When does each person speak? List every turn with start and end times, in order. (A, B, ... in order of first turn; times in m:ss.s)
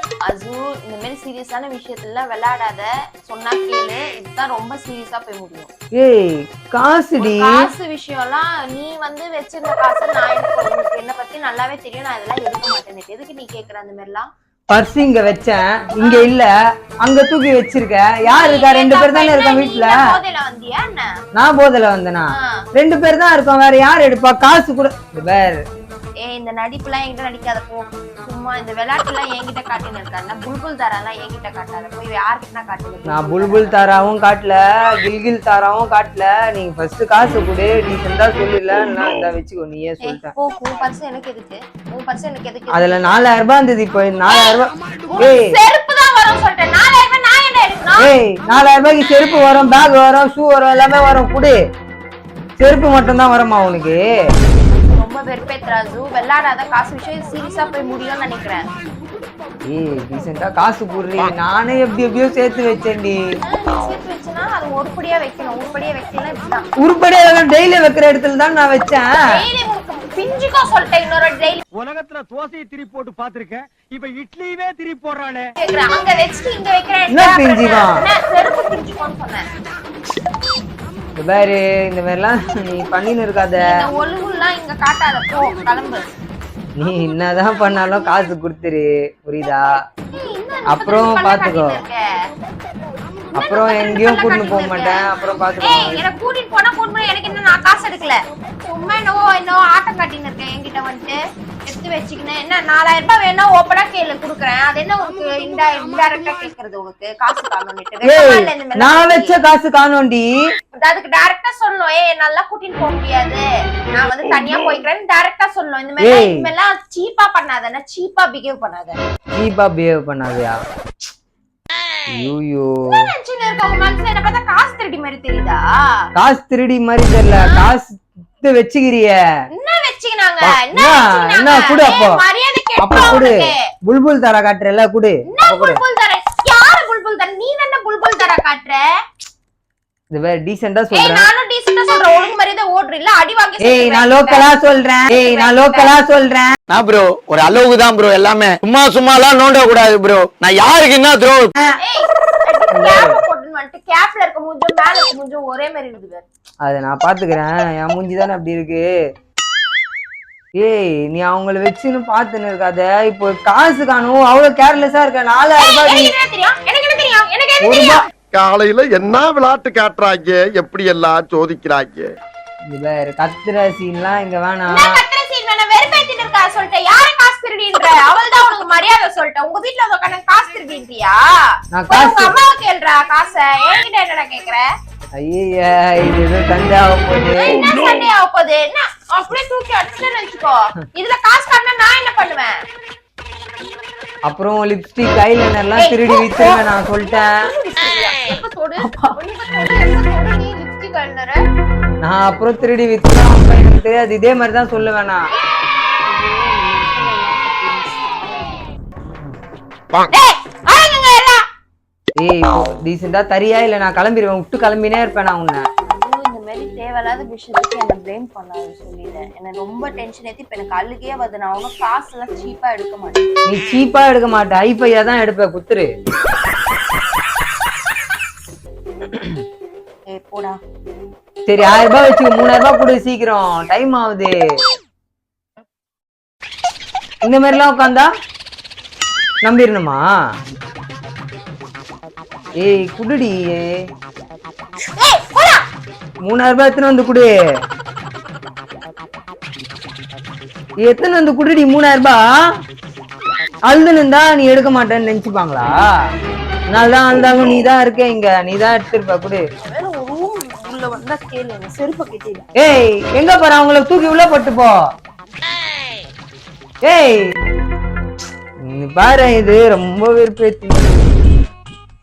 0:00.2-0:05.7 A
0:06.0-0:07.6 B
0:07.2-0:14.3 A
0:14.7-0:20.1 B
0:16.0-0:16.3 A
0:18.2-0:21.1 A
0:21.3-0:25.6 B
0:22.3-0:22.6 A
0:26.2-0:33.8 A
0:33.0-0:40.3 B
0:40.0-0:43.2 A
0:42.7-0:45.6 B
0:44.3-0:48.1 A
0:48.0-0:51.5 B
0:52.6-0:54.1 B
0:54.7-0:58.6 A
0:59.7-1:03.2 B
1:03.4-1:06.7 A
1:06.8-1:09.1 B
1:09.3-1:11.6 A
1:11.7-1:15.5 C
1:15.6-1:19.5 A
1:17.1-1:18.0 B
1:21.2-1:23.7 B
1:23.6-1:26.1 A
1:26.8-1:29.8 B
1:30.1-1:32.0 A
1:30.7-1:31.8 B
1:33.4-1:36.0 B
1:33.4-1:49.4 A
1:48.0-1:50.3 B
1:50.8-1:59.0 A
1:56.0-1:56.5 B
1:59.3-2:00.6 B
2:02.1-2:02.7 B
2:02.9-2:06.0 A
2:06.2-2:09.1 B
2:07.3-2:07.7 A
2:09.5-2:13.6 A
2:10.7-2:12.2 B
2:12.8-2:15.8 B
2:15.3-2:18.8 A
2:20.1-2:21.3 B
2:20.9-2:24.5 A
2:23.6-2:26.6 B
2:25.1-2:25.9 A
2:26.7-2:31.5 D
2:31.8-2:36.2 A
2:32.7-2:33.2 B
2:36.6-2:38.9 B
2:40.6-2:46.1 B
2:45.6-2:48.0 A
2:47.6-2:48.0 B
2:48.3-2:52.1 E
2:52.7-2:55.0 B
2:54.7-3:01.2 A
3:01.7-3:02.3 B
3:01.9-3:04.7 A
3:05.2-3:07.6 B
3:07.4-3:12.6 A
3:14.2-3:17.5 B
3:15.8-3:21.4 A
3:18.8-3:19.2 B
3:22.0-3:25.3 B
3:26.0-3:28.6 A
3:30.0-3:31.4 A
3:32.2-3:35.7 B
3:35.8-3:43.3 A
3:43.5-3:45.9 B
3:50.1-3:50.6 A
3:51.5-3:54.4 B
3:57.2-3:58.1 B
3:59.4-4:00.0 B
4:02.6-4:03.8 B
4:04.9-4:05.6 A
4:06.2-4:07.3 B
4:10.8-4:12.2 B
4:13.7-4:15.7 B
4:16.7-4:19.4 B
4:19.6-4:22.4 A
4:22.6-4:24.8 B
4:26.8-4:27.2 B
4:28.6-4:31.2 B